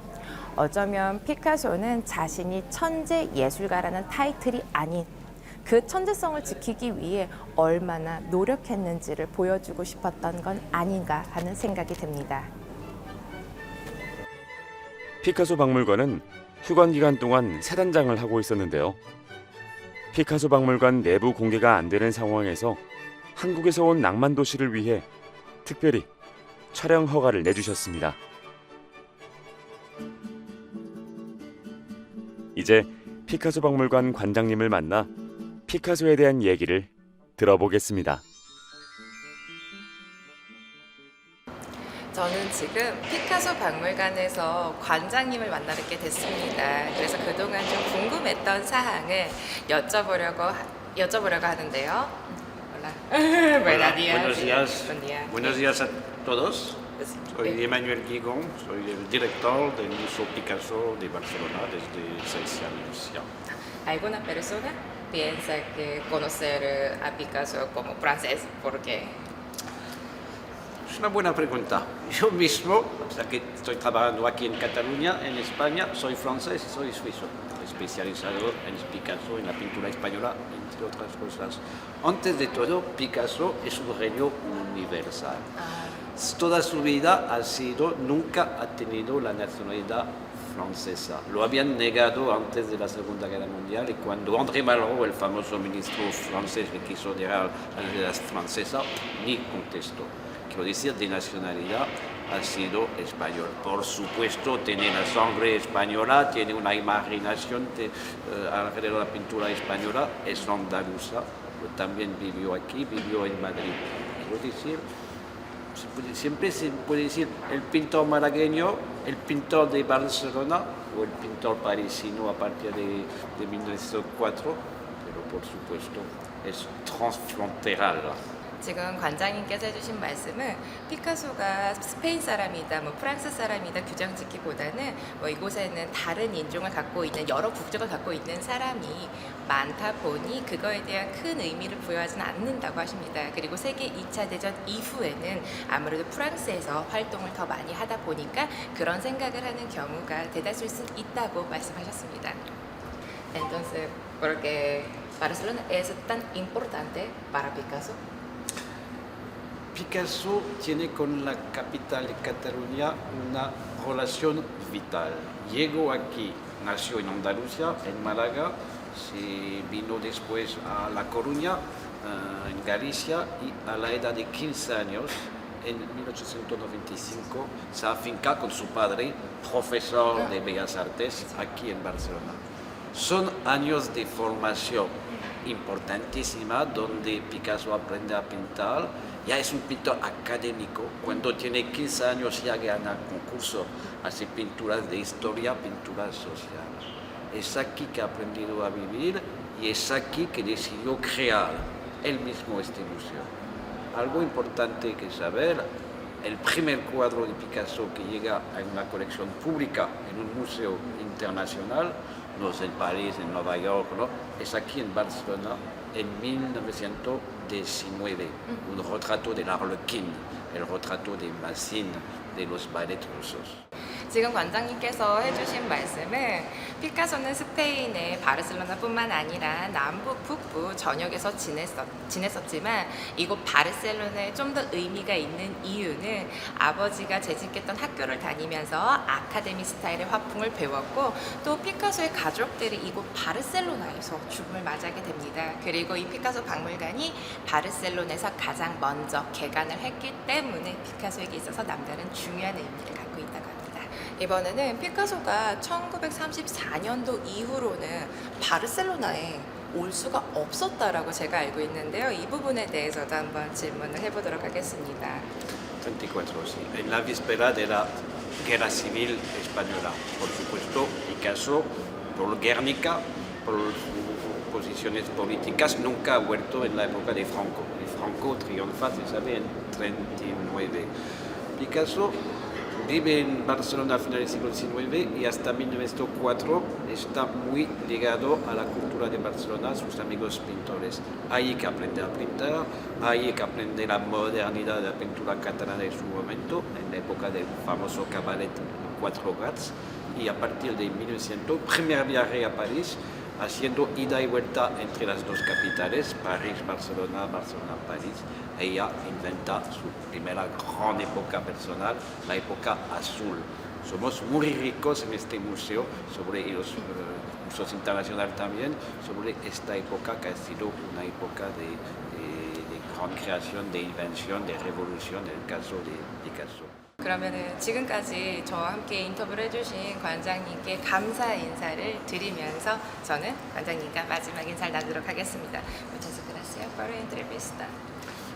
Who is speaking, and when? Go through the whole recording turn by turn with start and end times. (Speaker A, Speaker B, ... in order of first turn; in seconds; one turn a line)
Speaker A: 0.6-5.1
Speaker A: 5.6-12.5
Speaker B: 15.2-19.0
Speaker B: 20.1-22.8
Speaker B: 23.4-25.0
Speaker B: 25.6-26.1
Speaker B: 26.7-28.2
Speaker B: 32.5-35.1
Speaker B: 35.7-38.2
Speaker A: 42.1-55.6
Speaker C: 53.6-63.3
Speaker A: 57.0-57.5
Speaker A: 63.9-69.2
Speaker C: 70.9-85.5
Speaker A: 85.6-86.0
Speaker C: 86.1-114.8
Speaker C: 115.7-128.2
Speaker A: 128.6-152.4
Speaker A: 153.3-158.0
Speaker C: 159.7-182.4
Speaker C: 182.9-203.3
Speaker C: 203.9-205.7
Speaker C: 206.2-223.6
Speaker A: 224.1-265.3
Speaker C: 265.8-280.9
Speaker C: 281.6-282.2
Speaker C: 282.8-326.7
Speaker A: 327.0-337.7